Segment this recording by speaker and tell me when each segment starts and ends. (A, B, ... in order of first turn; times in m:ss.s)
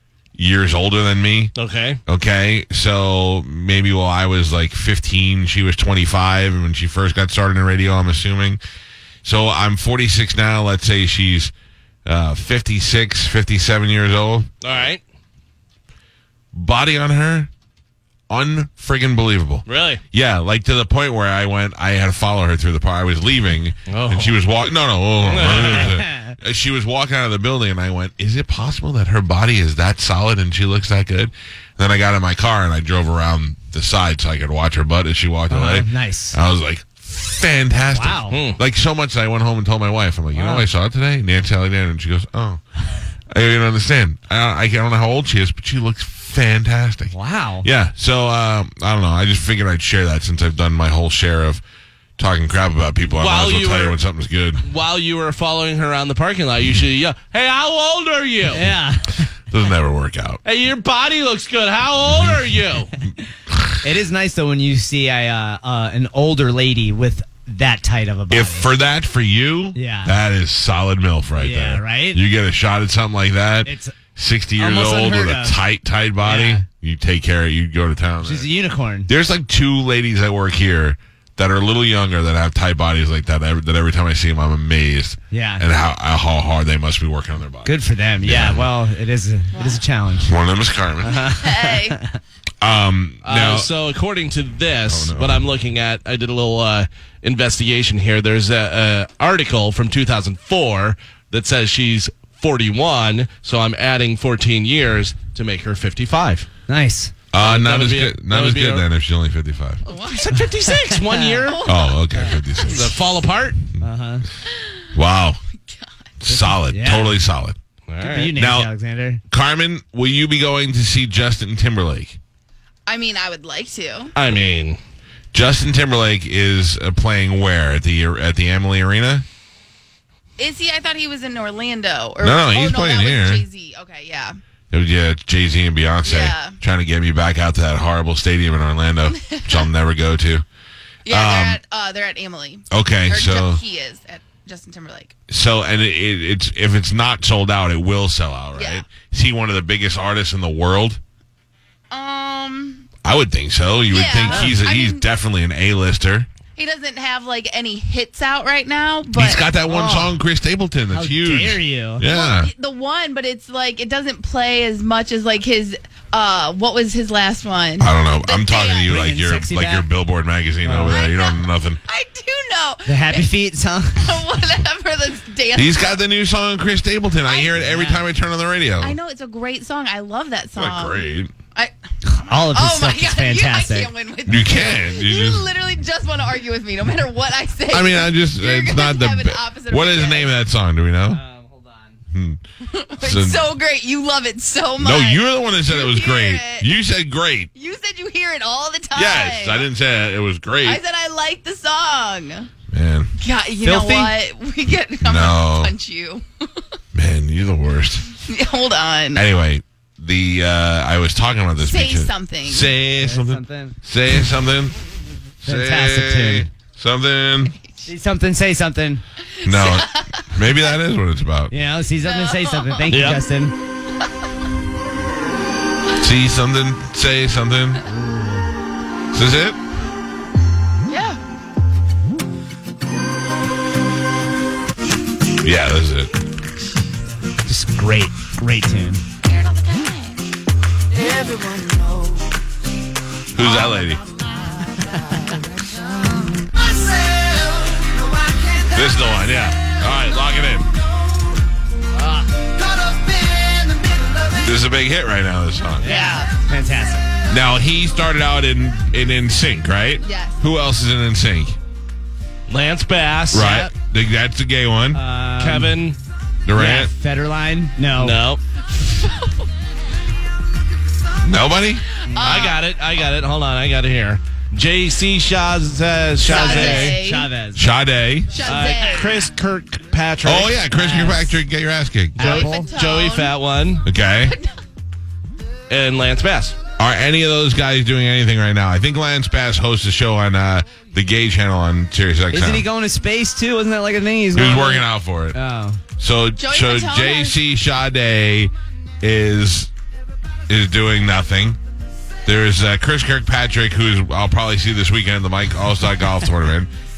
0:00.4-0:01.6 A
0:01.6-0:02.0 B
0:02.1-0:08.6 A
0:09.2-0:11.5 A
0:12.1-0:14.5 A
0:14.6-0:15.0 B
0:16.5-0:17.5 A
0:18.3-0:42.6 A
0:19.7-0:20.0 B
0:23.9-0:24.5 B
0:25.2-0:26.0 B
0:25.5-0:26.3 C
0:35.5-0:36.4 C
0:37.9-0:38.4 C
0:38.3-0:38.6 B
0:40.3-0:40.6 C
0:43.3-0:51.6 A
0:47.1-0:47.7 C
0:52.2-0:54.6 A
0:53.1-0:54.0 B
0:54.6-0:58.7 B
0:58.5-0:59.3 C
0:59.5-1:00.4 A
1:00.4-1:02.9 B
1:03.8-1:08.7 C
1:08.3-1:18.5 A
1:09.8-1:10.1 C
1:11.4-1:12.2 C
1:13.6-1:14.0 C
1:14.6-1:15.6 C
1:16.2-1:16.6 C
1:18.2-1:19.1 C
1:19.1-1:28.7 A
1:25.3-1:25.6 C
1:27.6-1:30.3 C
1:29.5-1:29.8 D
1:30.2-1:31.3 A
1:31.0-1:32.2 C
1:31.3-1:32.0 D
1:32.6-1:33.7 A
1:33.2-1:46.5 B
1:34.8-1:35.4 A
1:46.7-1:47.1 C
1:47.3-1:49.8 A
1:47.4-1:48.9 B
1:49.9-1:50.4 D
1:50.0-1:51.6 B
1:50.9-1:51.4 C
1:51.4-1:53.0 D
1:51.7-1:53.0 A
1:52.6-1:53.6 B
1:53.8-1:54.2 C
1:54.9-1:55.4 A
1:55.6-1:56.0 D
1:56.2-1:57.6 A
1:56.3-1:57.2 C
1:57.9-1:58.3 B
1:58.0-1:59.2 C
1:58.3-1:58.7 A
1:59.3-2:02.2 A
2:02.9-2:04.1 D
2:04.2-2:04.8 B
2:05.3-2:09.3 A
2:10.4-2:14.3 D
2:12.2-2:13.4 A
2:14.7-2:20.4 A
2:16.0-2:16.6 D
2:19.1-2:19.6 D
2:21.0-2:25.1 D
2:21.1-2:21.6 A
2:22.7-2:23.6 A
2:25.3-2:31.0 A
2:28.5-2:28.8 D
2:31.9-2:32.9 D
2:33.0-2:36.3 A
2:33.9-2:35.0 D
2:34.2-2:34.6 C
2:36.6-2:39.4 D
2:39.1-2:42.5 A
2:39.7-2:40.1 C
2:40.9-2:42.0 C
2:42.1-2:49.0 D
2:47.8-2:51.8 A
2:48.8-2:49.9 C
2:50.6-2:51.0 C
2:50.9-2:53.3 D
2:52.9-2:54.2 C
2:54.0-2:56.0 D
2:55.6-2:59.0 A
2:57.2-2:57.5 D
2:57.6-2:58.0 C
2:58.8-3:01.0 D
3:00.6-3:01.3 A
3:02.0-3:03.9 C
3:02.4-3:10.4 D
3:04.3-3:05.5 A
3:07.7-3:11.2 A
3:11.1-3:12.0 C
3:12.1-3:12.4 A
3:12.6-3:16.7 D
3:13.0-3:13.5 A
3:14.8-3:17.5 A
3:17.5-3:19.7 D
3:18.9-3:20.8 A
3:20.6-3:22.5 D
3:22.7-3:23.1 A
3:23.2-3:26.6 D
3:23.6-3:24.1 C
3:25.0-3:25.7 A
3:26.9-3:28.1 A
3:28.2-3:29.2 D
3:29.1-3:34.8 A
3:31.6-3:32.7 D
3:33.0-3:33.8 C
3:35.4-3:36.5 C
3:35.4-3:37.6 A
3:37.9-3:39.0 C
3:39.4-3:40.4 D
3:39.4-3:41.5 A
3:41.5-3:43.5 C
3:42.0-3:42.8 D
3:42.9-3:43.2 B
3:46.0-3:47.8 A
3:47.9-3:48.5 C
3:49.1-3:49.6 A
3:50.9-3:51.2 D
3:55.4-3:56.1 A
3:57.4-3:59.0 C
3:59.3-4:00.1 D
4:03.3-4:04.0 A
4:08.7-4:10.7 A
4:14.4-4:15.9 A
4:15.8-4:17.1 C
4:15.8-4:16.3 D
4:17.3-4:21.6 A
4:20.0-4:20.4 D
4:22.5-4:23.7 B
4:23.3-4:25.0 A
4:24.9-4:25.8 C
4:25.4-4:26.0 B
4:26.5-4:26.9 A
4:26.5-4:28.2 C
4:28.0-4:28.4 B
4:28.8-4:29.5 D
4:31.2-4:31.9 A
4:32.0-4:32.6 D
4:32.2-4:37.0 B
4:36.2-4:37.3 D
4:36.2-4:37.7 C
4:37.6-4:38.5 A
4:38.3-4:39.3 D
4:38.4-4:41.2 B
4:38.4-4:39.0 C
4:40.2-4:42.3 A
4:40.9-4:41.3 C
4:42.2-4:43.9 B
4:42.2-4:43.3 D
4:42.2-4:42.7 C
4:43.8-4:44.4 A
4:44.2-4:44.6 D
4:45.7-4:46.6 B
4:46.8-4:52.7 A
4:52.3-4:55.8 C
4:54.3-4:55.4 A
4:56.0-4:59.7 A
4:56.4-4:57.4 D
5:00.5-5:01.6 A
5:02.2-5:06.7 A